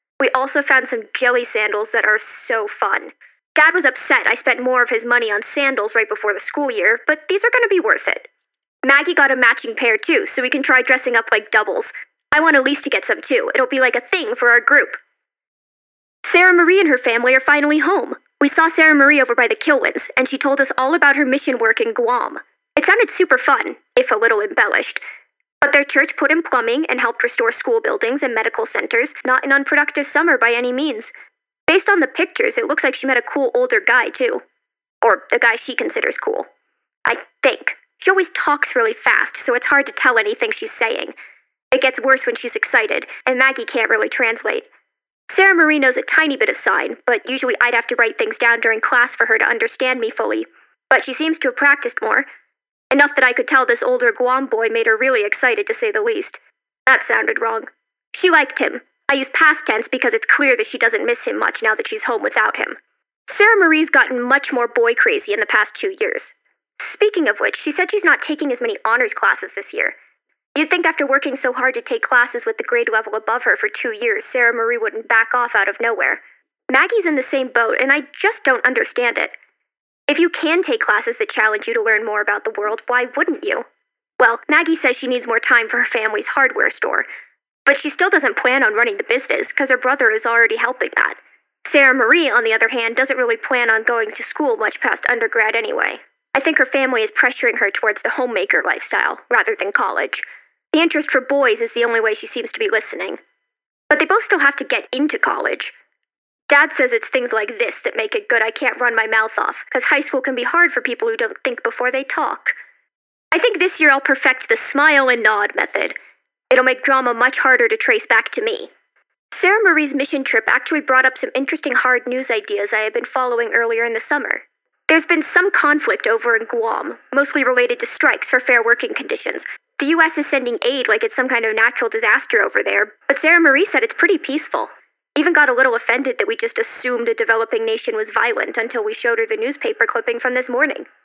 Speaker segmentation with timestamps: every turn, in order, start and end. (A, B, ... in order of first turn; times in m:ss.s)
0:00.2-0:08.3 A
0:08.8-0:15.0 A
0:16.2-0:25.0 A
0:25.6-0:31.1 A
0:31.7-0:34.4 A
0:35.0-0:36.5 A
0:37.0-0:41.1 A
0:41.7-0:44.7 A
0:45.3-0:52.3 A
0:52.9-1:10.0 A
1:10.6-1:19.3 A
1:20.1-1:23.6 A
1:24.2-1:27.1 A
1:27.7-1:43.2 A
1:43.9-1:45.7 A
1:46.5-1:52.5 A
1:53.3-1:56.0 A
1:56.5-1:58.7 A
1:59.3-2:20.9 A